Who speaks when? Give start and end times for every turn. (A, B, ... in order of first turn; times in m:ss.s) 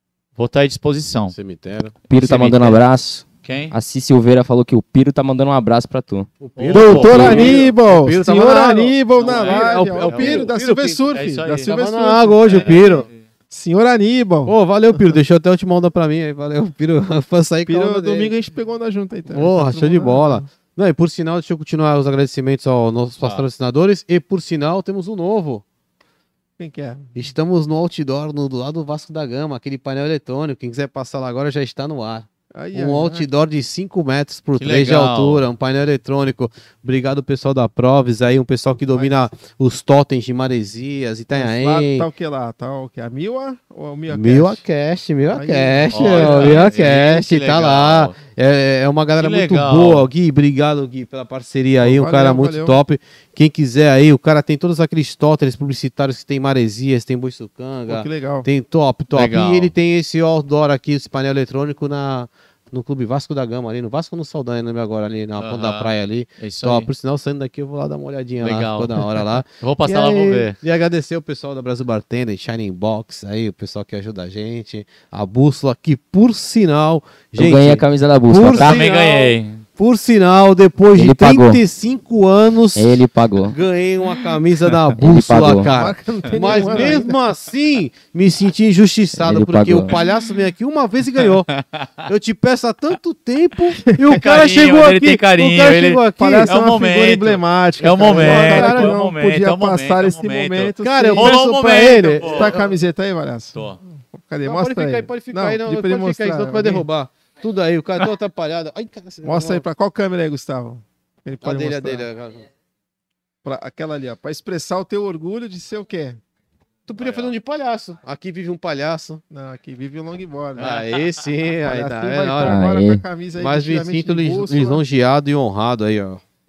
0:00.4-0:01.3 A
0:01.3-0:02.0 B
0:02.1-0:06.3 C
0:02.1-0:02.8 A
0:03.4-0:03.8 A
0:06.4-0:11.0 B
0:06.6-0:07.6 A
0:06.7-0:15.0 D
0:07.1-0:07.4 C
0:09.2-0:10.6 A
0:11.1-0:11.7 A
0:11.7-0:13.1 B
0:12.5-0:13.2 A
0:14.4-0:18.3 B
0:17.6-0:20.5 D
0:19.3-0:25.6 B
0:23.2-0:23.4 A
0:26.6-0:27.3 D
0:27.1-0:42.1 B
0:32.5-0:33.3 D
0:34.6-0:35.4 A
0:41.3-0:44.6 D
0:44.1-1:31.5 B
0:45.3-0:46.6 D
0:45.9-0:48.2 A
0:49.2-0:50.1 A
0:51.8-0:52.8 D
0:57.9-0:58.5 D
0:59.1-0:59.7 A
1:05.4-1:06.9 A
1:08.4-1:10.6 A
1:17.4-1:18.9 C
1:18.5-1:19.6 A
1:20.9-1:21.6 C
1:22.7-1:23.6 C
1:25.0-1:25.7 C
1:25.7-1:27.2 D
1:29.2-1:30.0 C
1:31.2-1:32.1 A
1:32.1-1:36.6 B
1:34.1-1:42.5 A
1:36.2-1:41.4 D
1:38.0-1:39.0 B
1:40.8-1:42.7 B
1:42.2-1:46.8 D
1:43.5-1:43.8 A
1:44.4-1:49.6 B
1:49.2-1:52.1 D
1:51.4-1:52.5 B
1:53.4-1:56.2 D
1:56.9-1:59.2 B
1:57.0-1:57.3 A
1:59.3-2:00.8 D
2:00.6-2:01.2 A
2:00.6-2:02.6 B
2:01.6-2:04.8 D
2:02.4-2:03.0 C
2:03.4-2:06.2 B